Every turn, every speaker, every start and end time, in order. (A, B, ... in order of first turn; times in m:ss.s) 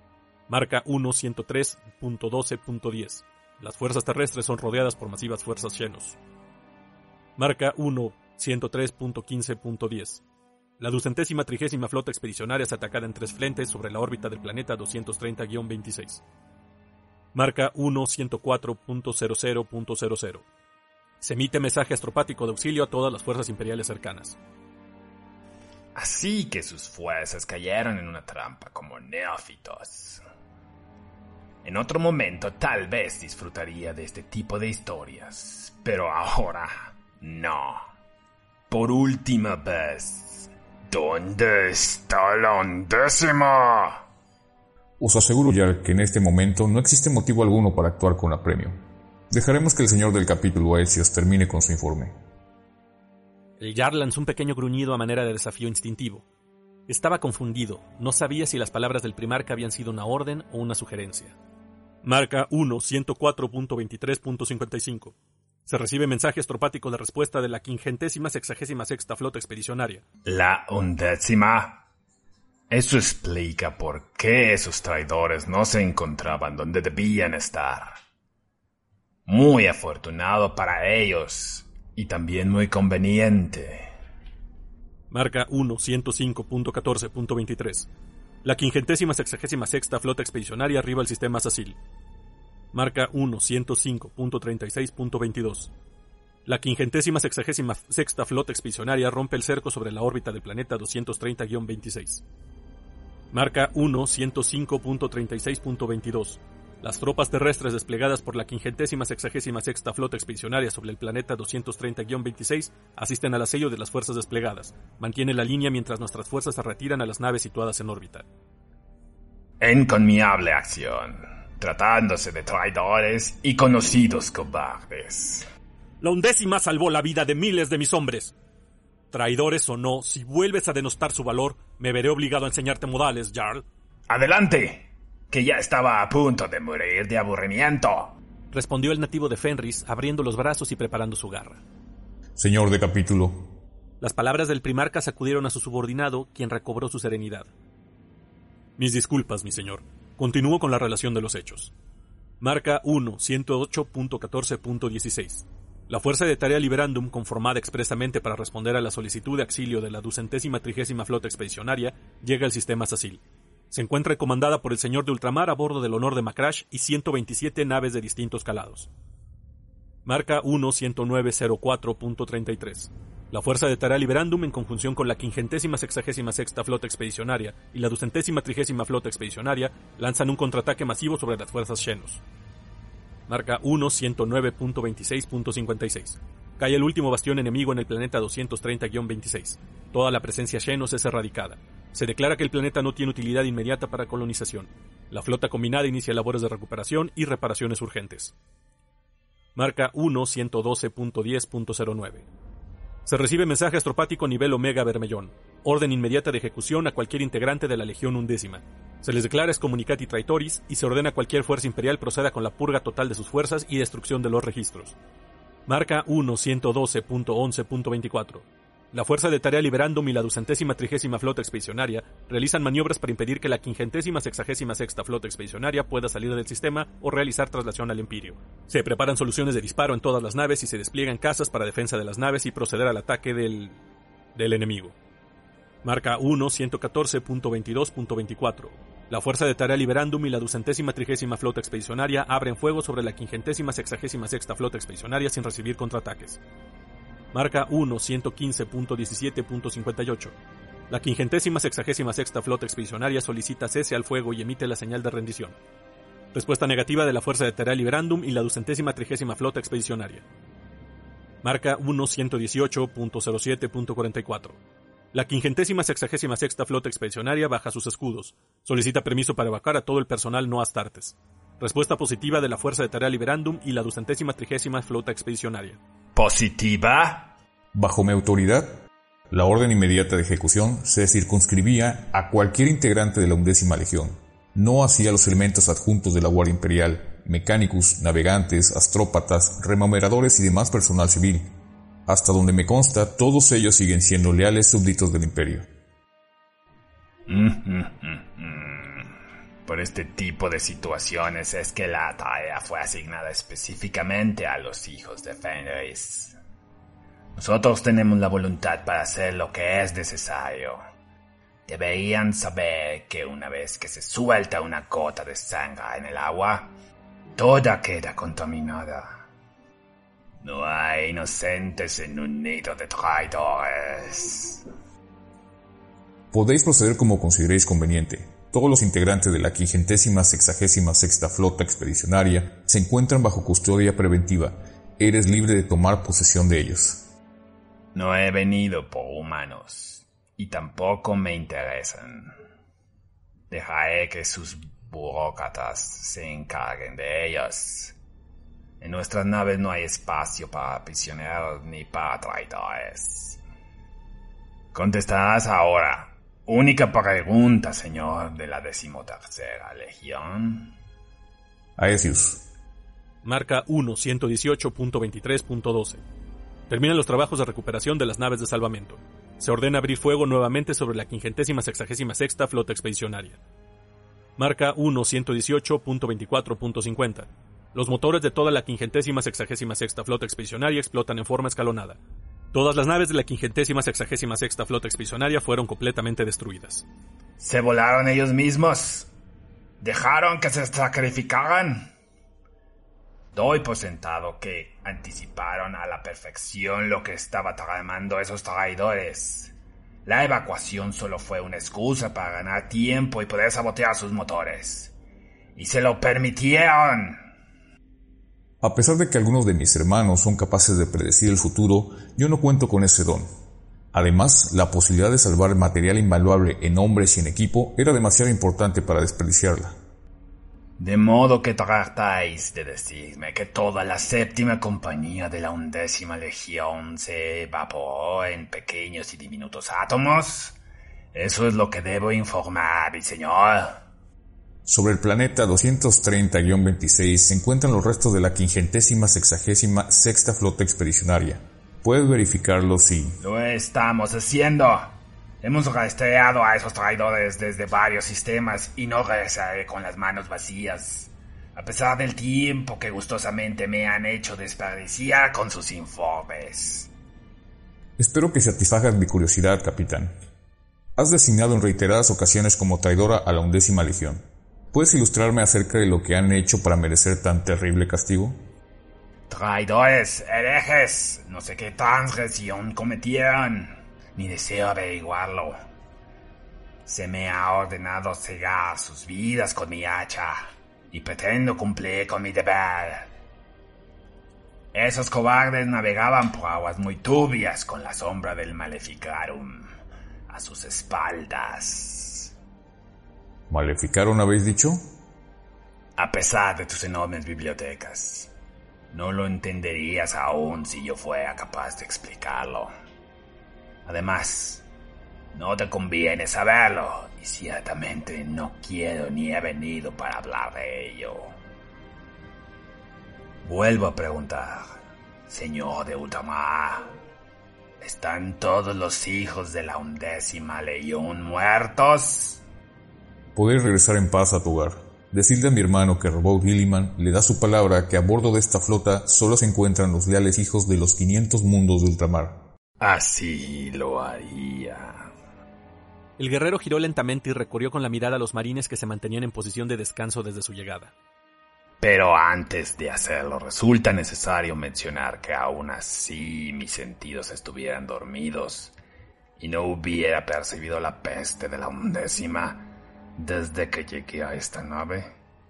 0:00.5-0:06.2 A
0:07.4-0:10.2 A
0:10.8-0:16.2 A
0:17.3-0:20.4 A
0:21.2-0:24.4 A
0:26.0-0:30.2 B
0:31.6-0:37.9 B
0:38.7-0:44.0 B
0:45.0-0:52.2 C
0:53.6-0:56.2 A
0:56.9-1:01.4 A
1:02.0-1:05.2 A
1:05.7-1:10.0 A
1:10.3-1:11.8 B
1:12.7-1:18.0 B
1:19.3-1:23.9 B
1:25.1-1:27.9 A
1:28.4-1:31.8 A
1:32.7-1:35.7 A
1:36.5-1:42.2 A
1:43.3-1:58.3 A
1:59.6-2:05.5 B
2:06.0-2:08.3 A
2:09.1-2:13.6 A
2:14.1-2:18.2 B
2:18.5-2:21.6 A
2:22.4-2:23.5 C
2:24.0-2:27.5 A
2:28.8-2:31.7 A
2:32.4-2:48.9 A
2:50.0-3:02.2 A
3:03.3-3:18.3 A
3:19.6-3:22.3 A
3:23.0-3:35.0 A
3:35.7-3:53.8 A
3:54.4-3:55.0 A
3:55.8-4:06.4 A
4:07.3-4:10.3 A
4:10.9-4:15.6 A
4:16.3-4:20.2 A
4:21.4-4:24.6 A
4:25.1-4:35.8 A
4:36.2-4:37.3 B
4:37.7-4:38.8 C
4:39.3-4:51.5 C
4:52.1-4:55.7 C
4:57.3-4:59.1 B
4:59.7-5:06.4 B
5:07.4-5:10.8 B
5:11.7-5:16.7 B
5:17.4-5:19.2 B
5:20.4-5:24.6 B
5:26.3-5:37.1 C
5:38.0-5:42.4 B
5:43.5-5:48.0 B
5:48.8-5:53.4 B
5:54.7-6:00.8 B
6:01.8-6:02.4 C
6:03.2-6:06.0 A
6:06.7-6:13.4 A
6:14.4-6:22.0 A
6:22.5-6:26.8 A
6:27.4-6:29.1 B
6:29.8-6:31.9 B
6:33.3-6:39.5 B
6:40.1-6:45.0 B
6:45.6-6:47.2 B
6:48.6-6:53.3 C
6:53.9-6:59.8 C
7:00.8-7:10.6 B
7:11.1-7:13.8 B
7:14.7-7:23.2 C
7:23.2-7:36.9 B
7:38.0-7:40.2 C
7:41.0-7:48.4 C
7:49.3-7:55.6 B
7:56.9-8:03.1 B
8:04.7-8:09.7 B
8:10.3-8:12.3 B
8:13.5-8:14.8 C
8:16.0-8:18.3 B
8:18.9-8:22.7 B
8:23.9-8:24.6 B
8:25.3-8:31.3 B
8:33.4-8:34.7 B
8:35.3-8:36.9 B
8:37.8-8:42.4 B
8:43.4-8:52.4 C
8:52.8-8:55.1 B
8:56.2-9:00.9 A
9:01.8-9:08.7 B
9:09.4-9:15.1 B